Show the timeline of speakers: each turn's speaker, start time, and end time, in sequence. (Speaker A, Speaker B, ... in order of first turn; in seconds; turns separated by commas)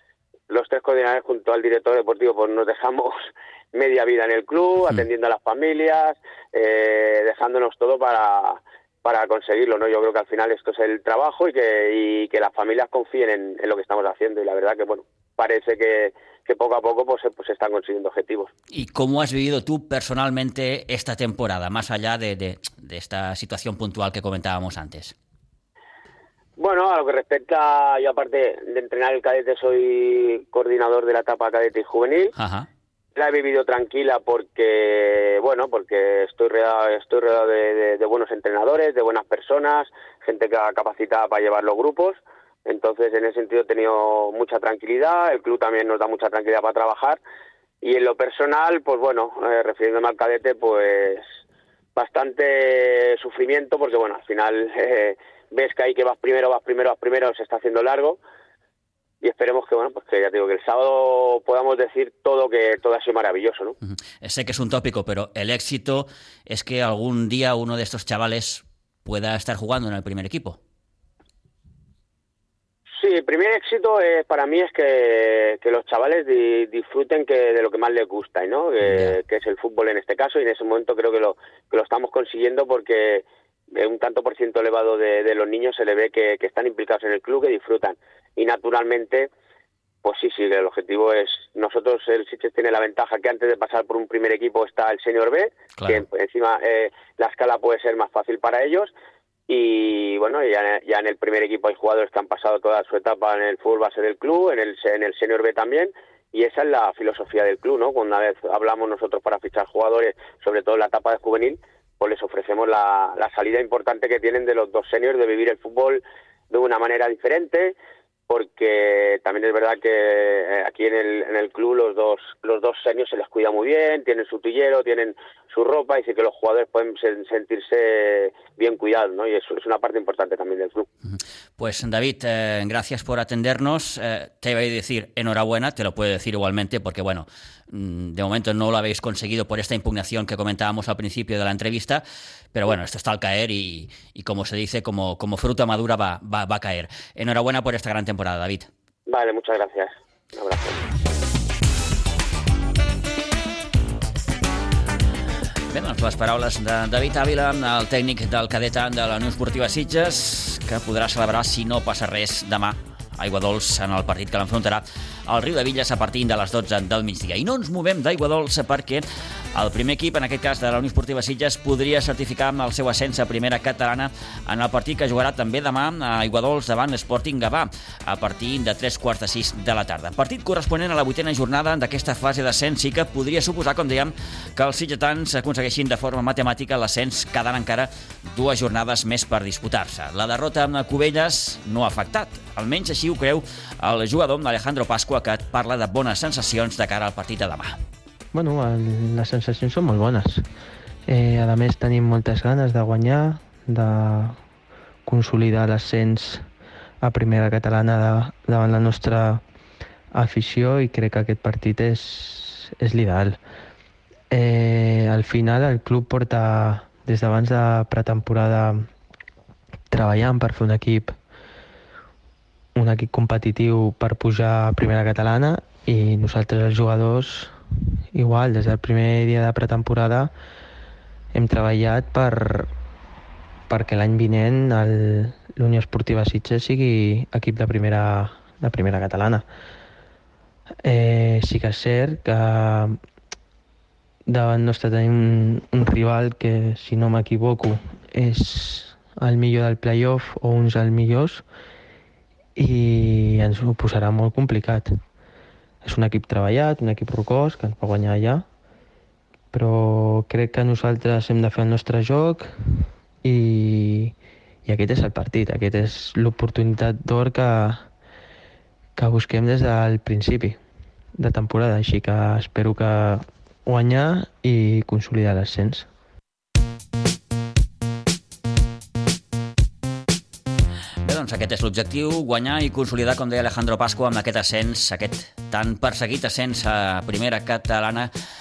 Speaker A: 0.5-18.5, Speaker B: 18.7-25.1, Speaker A: 26.6-32.3, Speaker B: 32.4-32.7, Speaker A: 33.1-47.2, Speaker A: 47.8-51.2, Speaker A: 51.9-58.2, Speaker A: 59.2-63.8, Speaker B: 64.2-70.6, Speaker A: 73.0-89.3, Speaker B: 78.8-79.2, Speaker A: 90.0-98.9, Speaker A: 99.5-117.7, Speaker A: 118.3-130.9, Speaker B: 131.6-142.0, Speaker B: 142.5-148.7, Speaker A: 149.1-150.9, Speaker B: 155.7-197.8, Speaker C: 198.3-200.4, Speaker C: 201.1-204.4, Speaker C: 205.1-206.4, Speaker C: 207.0-209.4, Speaker C: 210.1-213.4, Speaker C: 214.3-218.8, Speaker C: 219.9-221.1, Speaker C: 222.7-227.6, Speaker C: 228.1-230.3, Speaker C: 231.3-232.7, Speaker C: 233.7-239.4, Speaker C: 240.8-243.0, Speaker C: 244.3-251.4, Speaker C: 252.6-254.9, Speaker C: 255.8-258.4, Speaker C: 259.5-262.5, Speaker C: 263.2-264.1, Speaker C: 264.6-267.9, Speaker C: 268.9-270.6, Speaker C: 271.2-275.9, Speaker B: 281.0-288.1